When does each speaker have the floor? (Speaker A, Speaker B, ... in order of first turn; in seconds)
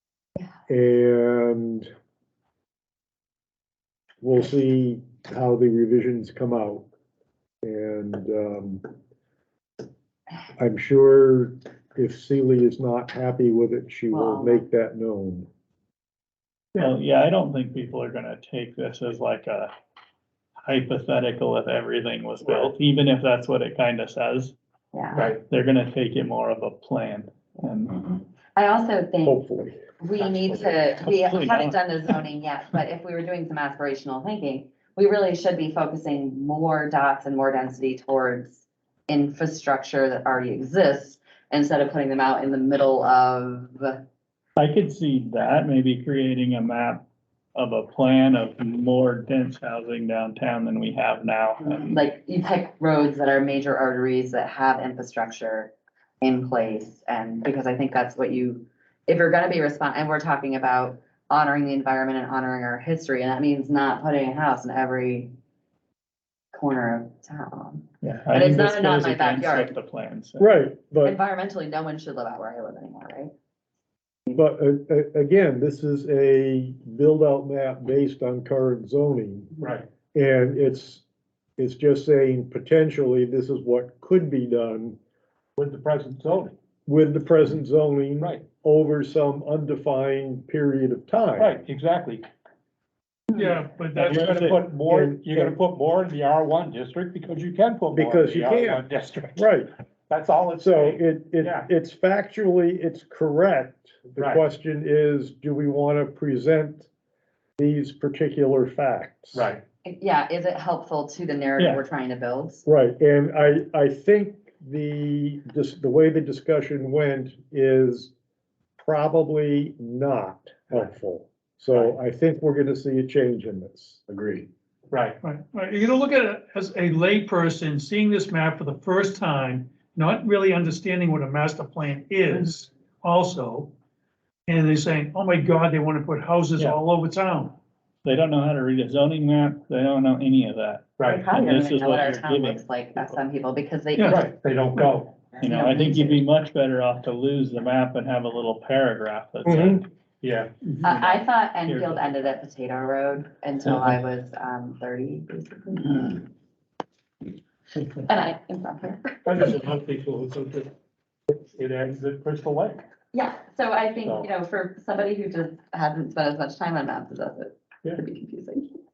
Speaker A: 0.7-1.9, 4.2-6.9, 7.6-8.8, 10.6-15.5, 29.2-29.8, 70.4-71.2, 74.3-79.5, 80.1-81.0, 81.6-85.0, 86.9-91.5, 93.4-95.5, 97.9-98.8, 99.3-99.7, 100.6-106.9, 107.6-109.5, 112.7-118.1, 118.8-124.5, 149.5-149.8
Speaker B: 14.1-14.7, 24.9-25.3, 28.6-29.4, 30.0-44.0, 51.8-65.3, 66.5-69.7, 71.0-73.3, 109.8-112.7, 141.1-144.3, 145.4-146.2, 150.8-156.3, 157.9-159.2, 163.1-168.8
Speaker C: 16.8-19.7, 20.6-24.6, 25.5-28.2, 31.1-32.1, 44.6-47.0, 47.5-52.0, 68.0-70.5, 111.6-111.8, 138.0-143.2, 145.4-149.9, 150.7-152.2
Speaker D: 22.4-22.7, 25.1-25.4, 30.2-30.8, 79.6-79.9, 85.6-86.6, 91.4-92.3, 94.0-99.4, 100.1-101.7, 104.2-104.4, 109.3-109.6, 124.9-125.2, 141.0-141.3, 144.0-145.2, 150.2-150.6, 159.2-160.7, 161.3-162.8
Speaker E: 93.3-94.6, 125.2-133.7, 134.5-137.6, 144.0-144.2